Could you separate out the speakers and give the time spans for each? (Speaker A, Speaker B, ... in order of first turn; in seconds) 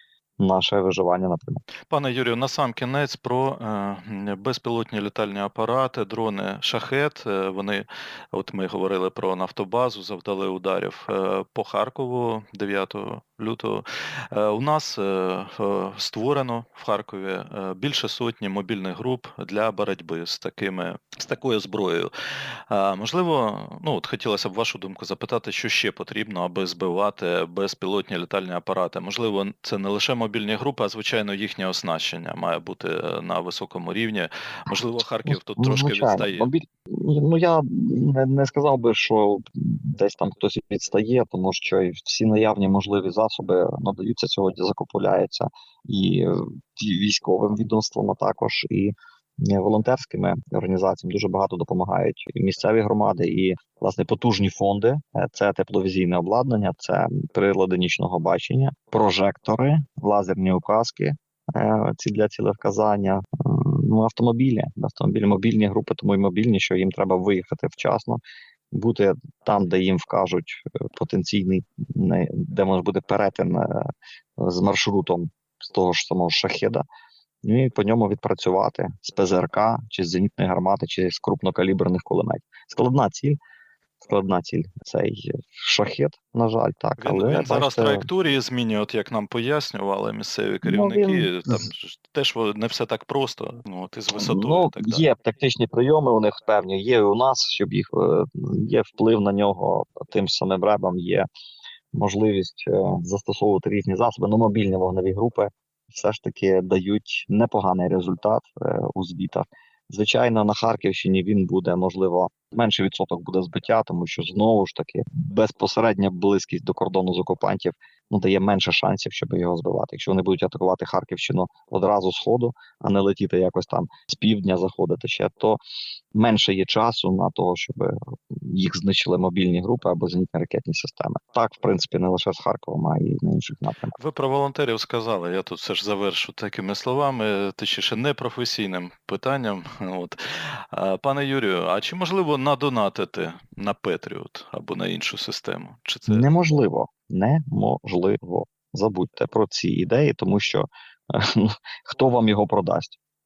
Speaker A: 0.4-1.6, 35.2-48.9, 49.4-68.2, 68.7-73.9, 74.4-76.8, 77.4-83.4, 84.0-88.0, 90.6-91.7, 94.1-101.3, 101.9-125.6, 126.1-134.0, 146.1-152.9
Speaker B: 1.9-22.1, 22.7-36.5, 87.0-95.1, 134.0-146.3